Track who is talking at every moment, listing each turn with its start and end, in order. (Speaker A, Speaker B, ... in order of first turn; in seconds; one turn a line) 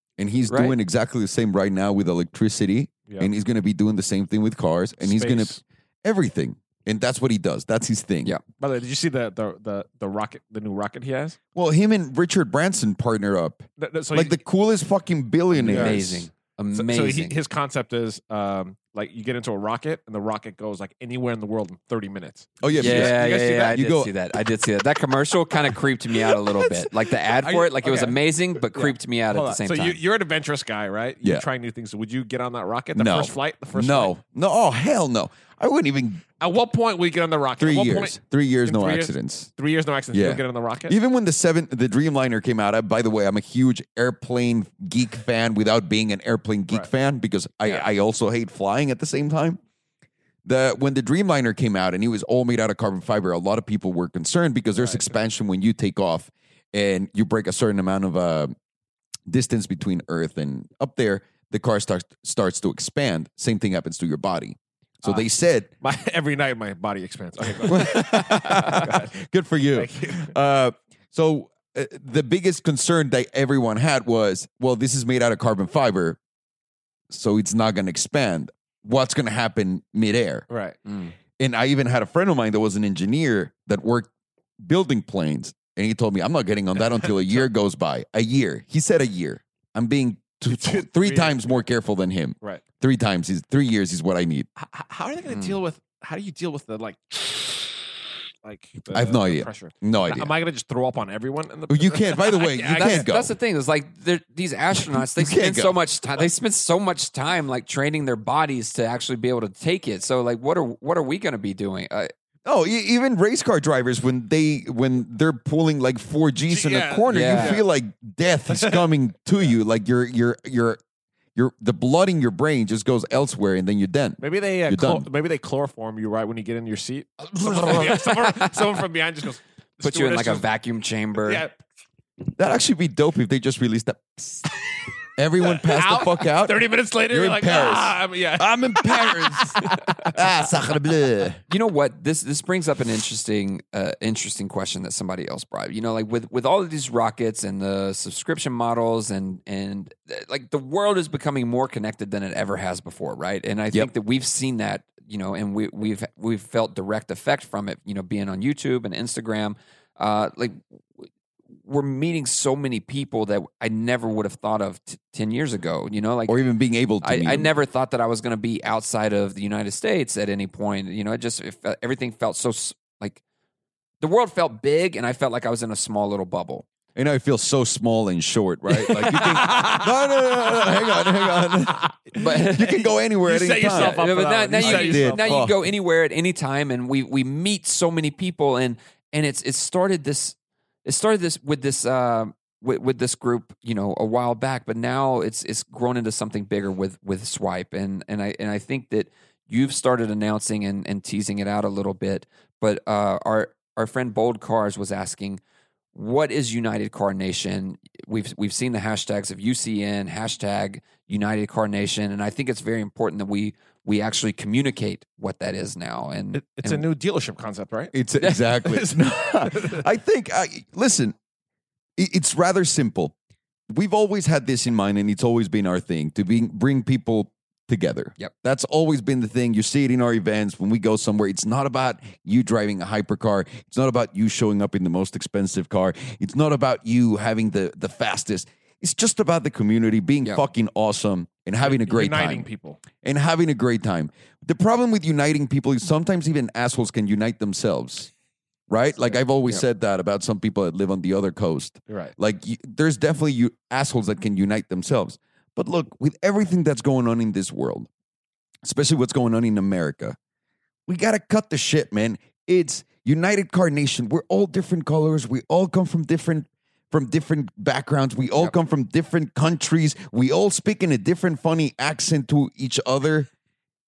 Speaker A: 0.2-8.4
Speaker B: 0.5-0.7
Speaker C: 5.0-5.6
Speaker C: 8.6-11.4
Speaker A: 11.6-16.3
Speaker C: 13.8-14.4
Speaker C: 15.6-16.0
Speaker B: 15.6-17.4
Speaker C: 16.7-23.9
Speaker A: 22.6-24.1
Speaker B: 22.8-30.0
Speaker C: 26.1-34.1
Speaker A: 33.0-36.2
Speaker C: 36.4-41.0
Speaker A: 37.6-39.5
Speaker A: 40.1-49.6
Speaker A: 50.5-58.5
Speaker C: 54.7-55.1
Speaker A: 59.3-65.7
Speaker C: 65.8-69.2
Speaker A: 67.7-76.2
Speaker C: 69.7-70.3
Speaker A: 77.1-80.5
Speaker C: 80.5-80.8
Speaker A: 81.4-94.5
Speaker C: 86.9-87.4
Speaker C: 90.5-91.4
Speaker C: 94.6-103.1
Speaker B: 95.3-95.6
Speaker A: 98.9-100.3
Speaker A: 101.7-103.3
Speaker B: 102.6-112.1
Speaker A: 104.7-105.8
Speaker A: 112.5-120.8
Speaker C: 116.5-117.6
Speaker B: 117.1-117.6
Speaker A: 121.4-125.1
Speaker C: 124.2-130.4
Speaker B: 127.5-128.6
Speaker B: 129.8-131.4
Speaker C: 131.2-131.6
Speaker A: 132.3-134.5
Speaker A: 135.1-141.4
Speaker C: 135.4-140.8
Speaker B: 141.5-161.1
Speaker B: 161.6-166.4
Speaker A: 166.3-167.5
Speaker B: 167.0-173.2
Speaker B: 174.0-176.7
Speaker A: 176.9-184.1
Speaker B: 178.9-179.7
Speaker C: 179.4-182.1
Speaker B: 182.2-182.9
Speaker C: 183.2-185.5
Speaker B: 183.7-205.4
Speaker A: 184.6-185.6
Speaker B: 205.9-216.9
Speaker C: 216.3-219.9
Speaker A: 217.9-221.1
Speaker A: 222.0-223.1
Speaker A: 223.7-242.5
Speaker C: 241.6-242.8
Speaker A: 243.0-248.1
Speaker A: 248.7-257.9
Speaker C: 251.9-252.1
Speaker A: 258.6-260.2
Speaker A: 260.9-273.3